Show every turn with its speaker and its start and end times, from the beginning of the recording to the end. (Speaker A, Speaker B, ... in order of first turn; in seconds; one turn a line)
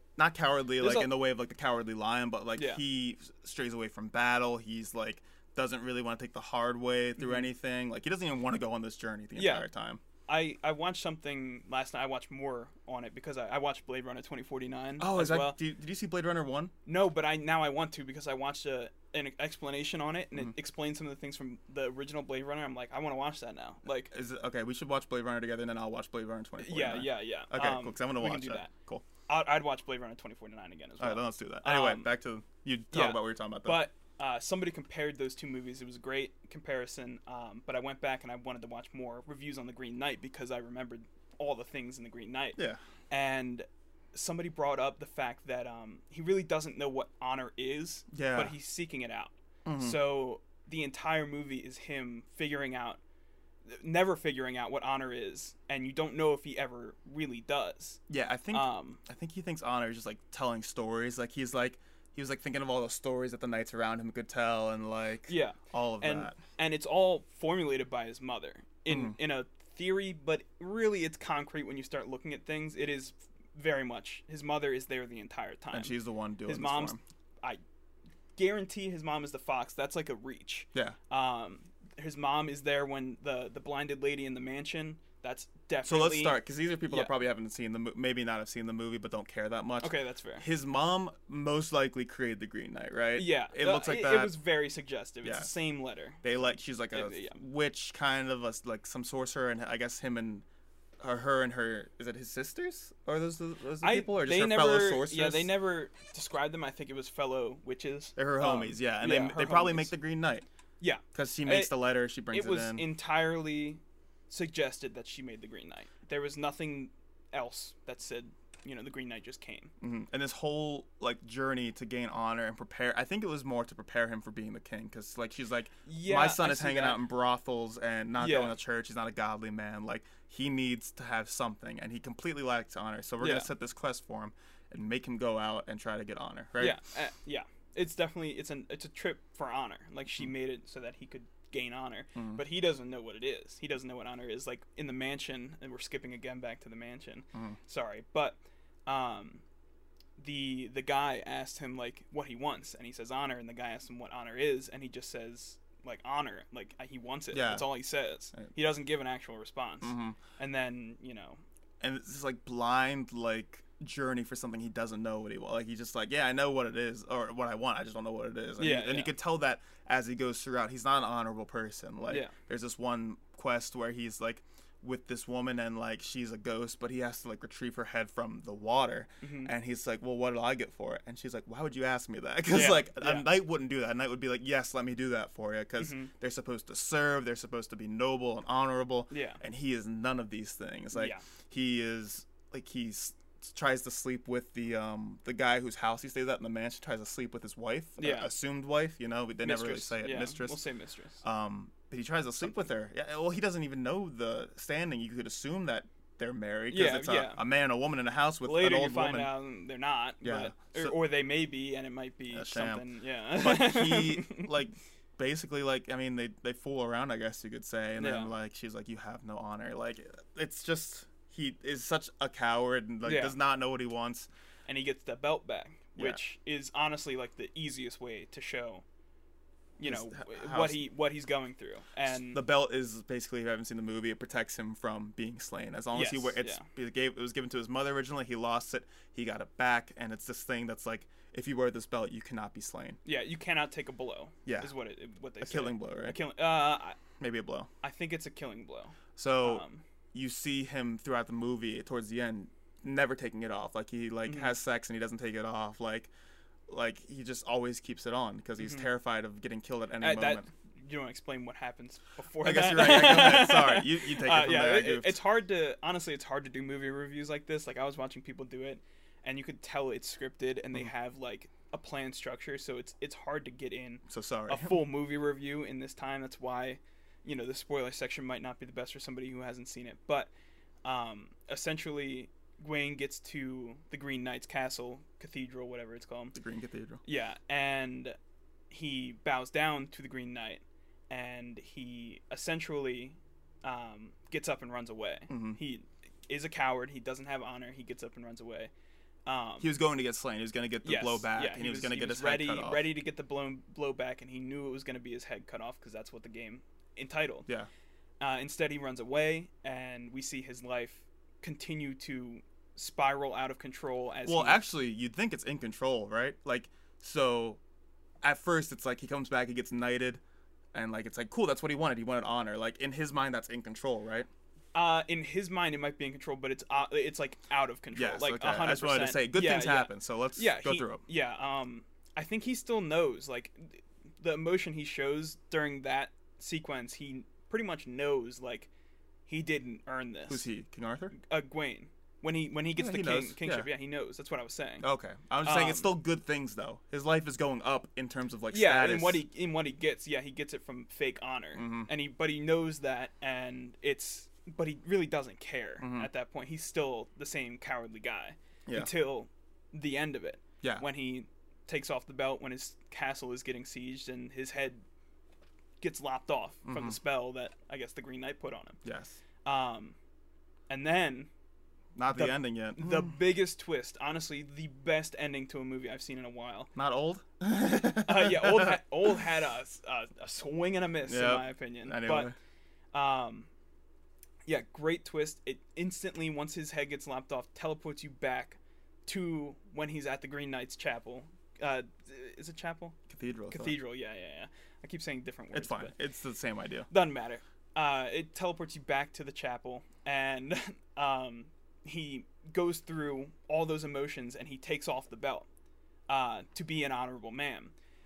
Speaker A: 0.2-10.0
Speaker B: 0.8-1.1
Speaker B: 2.5-2.8
Speaker B: 7.2-7.5
Speaker B: 9.3-9.7
Speaker B: 10.3-15.6
Speaker A: 15.0-16.7
Speaker B: 16.9-24.1
Speaker A: 24.1-29.1
Speaker B: 26.6-28.7
Speaker B: 29.3-32.1
Speaker A: 31.0-33.8
Speaker B: 32.9-42.6
Speaker B: 43.1-53.0
Speaker A: 48.1-48.5
Speaker A: 49.6-50.1
Speaker B: 53.6-58.0
Speaker A: 58.1-66.4
Speaker B: 58.5-59.0
Speaker B: 65.3-77.6
Speaker A: 68.9-69.2
Speaker A: 75.7-77.0
Speaker B: 78.3-87.1
Speaker A: 85.8-94.4
Speaker B: 89.8-90.5
Speaker B: 93.1-96.2
Speaker A: 95.2-95.5
Speaker A: 96.2-100.4
Speaker B: 96.9-97.4
Speaker A: 101.0-105.5
Speaker B: 103.8-109.9
Speaker A: 108.2-110.5
Speaker B: 110.8-111.8
Speaker A: 111.1-112.8
Speaker B: 112.3-119.7
Speaker A: 119.8-136.8
Speaker B: 125.8-127.0
Speaker B: 128.2-128.6
Speaker B: 133.2-133.5
Speaker B: 136.6-149.4
Speaker A: 142.1-142.4
Speaker B: 150.2-161.4
Speaker A: 157.3-157.7
Speaker A: 159.8-160.2
Speaker A: 161.8-200.6
Speaker B: 168.6-169.1
Speaker B: 172.1-172.3
Speaker B: 179.2-179.5
Speaker B: 182.5-183.3
Speaker B: 185.8-186.1
Speaker B: 189.1-189.4
Speaker B: 190.9-191.2
Speaker B: 198.0-198.3
Speaker B: 199.4-201.2
Speaker A: 201.2-209.3
Speaker B: 206.7-207.4
Speaker B: 208.4-214.5
Speaker A: 210.2-210.9
Speaker A: 212.3-224.3
Speaker B: 218.0-218.3
Speaker B: 223.0-223.4
Speaker B: 224.7-228.8
Speaker B: 229.8-232.4
Speaker A: 229.8-230.9
Speaker A: 232.1-243.0
Speaker B: 235.9-236.6
Speaker B: 243.0-247.0
Speaker A: 244.4-244.7
Speaker A: 245.4-246.2
Speaker A: 247.2-247.7
Speaker B: 247.8-249.8
Speaker A: 249.2-256.1
Speaker B: 254.2-254.5
Speaker A: 256.7-260.4
Speaker B: 258.6-258.9
Speaker B: 260.0-280.3
Speaker A: 262.4-265.2
Speaker A: 274.1-274.8
Speaker B: 280.8-286.4
Speaker A: 286.3-287.0
Speaker B: 287.0-288.2
Speaker B: 288.7-298.7
Speaker A: 295.3-295.6
Speaker B: 299.2-299.7
Speaker A: 299.6-302.9
Speaker B: 300.8-307.5
Speaker B: 308.2-314.6
Speaker A: 314.2-317.6
Speaker A: 318.2-320.2
Speaker A: 320.7-324.3
Speaker B: 324.7-338.7
Speaker A: 327.9-331.0
Speaker B: 339.3-340.4
Speaker A: 340.3-341.1
Speaker B: 341.1-344.8
Speaker A: 342.7-343.7
Speaker A: 344.8-349.2
Speaker B: 345.4-345.9
Speaker B: 348.5-364.8
Speaker A: 351.6-351.9
Speaker A: 355.8-356.1
Speaker B: 365.8-368.8
Speaker A: 366.6-367.0
Speaker A: 368.8-369.2
Speaker B: 369.4-369.9
Speaker B: 370.7-371.3
Speaker A: 371.9-373.2
Speaker B: 372.1-376.7
Speaker A: 376.7-378.8
Speaker B: 378.0-382.3
Speaker A: 381.1-382.3
Speaker B: 382.9-383.5
Speaker B: 384.4-393.0
Speaker A: 393.1-393.8
Speaker B: 393.5-395.9
Speaker A: 395.5-396.9
Speaker B: 396.9-405.4
Speaker B: 406.1-407.7